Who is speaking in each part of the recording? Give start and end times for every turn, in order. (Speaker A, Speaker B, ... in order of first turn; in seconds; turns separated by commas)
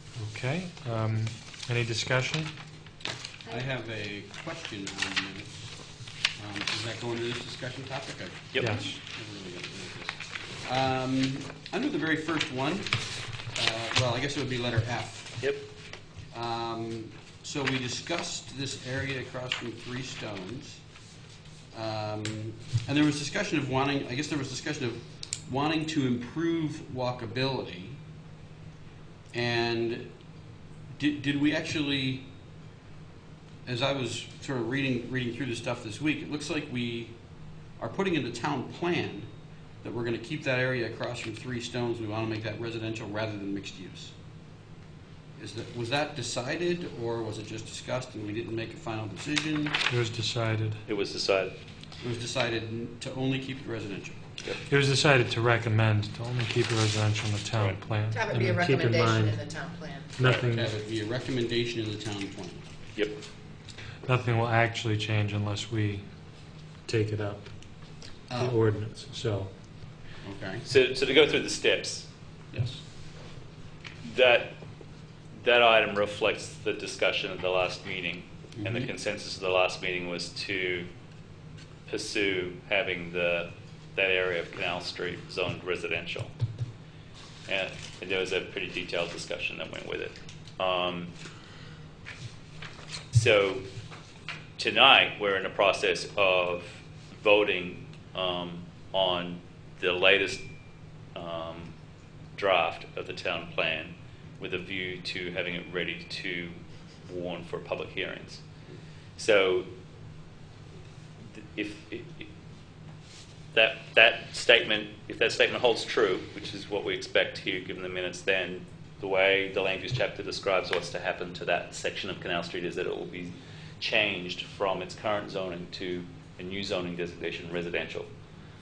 Speaker A: 0.2-2.5, Speaker B: 3.5-5.7, Speaker B: 6.4-15.5, Speaker A: 8.6-9.0, Speaker B: 16.3-20.8, Speaker B: 21.7-28.0, Speaker B: 29.3-30.1, Speaker B: 30.9-32.3, Speaker B: 33.7-37.1, Speaker B: 37.8-39.3, Speaker B: 39.8-44.1, Speaker B: 45.4-49.8, Speaker A: 49.9-50.8, Speaker C: 50.9-51.5, Speaker B: 52.0-54.2, Speaker A: 54.6-59.4, Speaker C: 57.6-57.8, Speaker D: 58.1-60.1, Speaker A: 60.2-60.7, Speaker B: 60.5-62.6, Speaker A: 64.0-66.0, Speaker A: 66.8-67.5, Speaker B: 68.3-68.6, Speaker A: 68.4-69.5, Speaker B: 70.2-70.7, Speaker C: 70.7-72.1, Speaker B: 72.5-72.8, Speaker C: 74.0-74.6, Speaker C: 75.3-80.9, Speaker B: 78.6-78.9, Speaker C: 81.9-86.3, Speaker C: 87.5-91.1, Speaker C: 93.1-93.7, Speaker C: 94.6-100.4, Speaker C: 101.2-101.7, Speaker C: 102.4-108.4, Speaker C: 109.2-109.7, Speaker C: 111.3-112.3, Speaker C: 113.5-128.1